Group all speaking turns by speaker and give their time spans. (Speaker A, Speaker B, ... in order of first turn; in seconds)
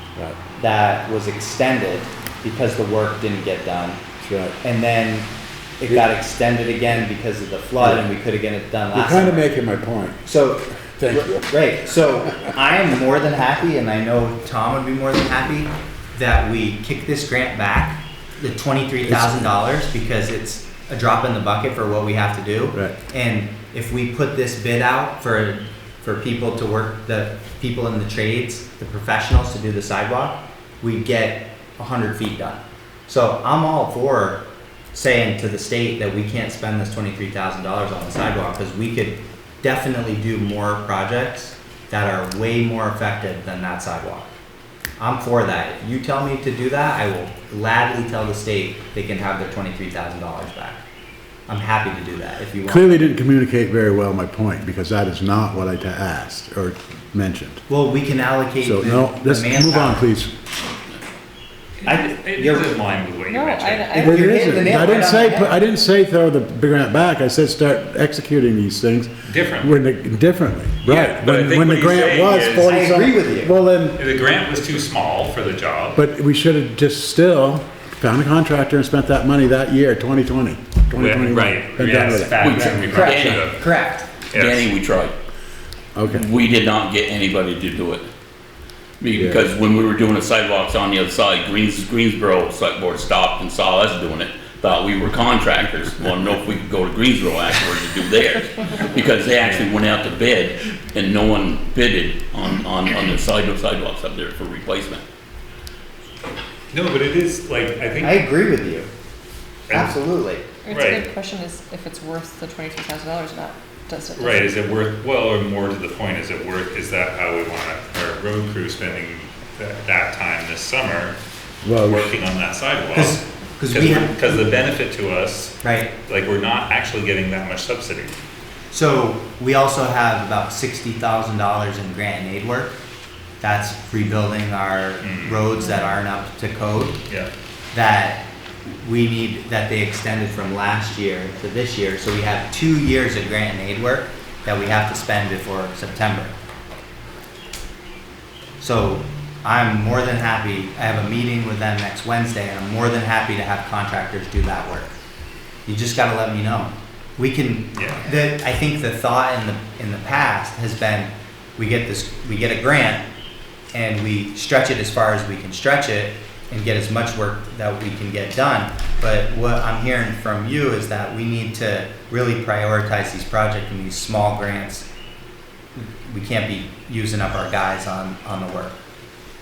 Speaker A: 0.6-4.0, 4.6-9.5, 10.2-44.3, 45.0-50.8, 51.5-53.1, 57.7-60.1, 61.9-62.7, 63.9-65.6, 72.6-73.5, 82.9-84.1, 108.0-108.9, 109.7-110.5, 122.9-124.2, 125.6-125.9, 128.7-132.8, 133.4-137.0, 137.7-146.3, 148.6-154.9, 155.7-163.0, 163.7-174.9, 175.8-178.8
Speaker B: 4.2-4.5, 8.9-10.2, 11.0-11.5, 19.1-19.5, 52.7-57.6, 58.6-60.3, 64.0-74.0, 76.0-82.9, 86.0-86.2, 89.2-89.5, 121.6-122.1
Speaker C: 61.8-63.9, 69.3-69.8, 70.8-73.0, 74.0-76.0, 80.9-83.7, 84.3-84.7, 106.7-108.2, 109.7-110.0, 110.7-111.1, 114.2-121.2, 121.8-128.2, 135.0-135.5, 157.7-158.1
Speaker D: 63.3-65.1, 110.7-114.6, 135.6-135.9
Speaker E: 82.4-83.6, 84.3-85.1, 86.1-88.1, 89.0-105.0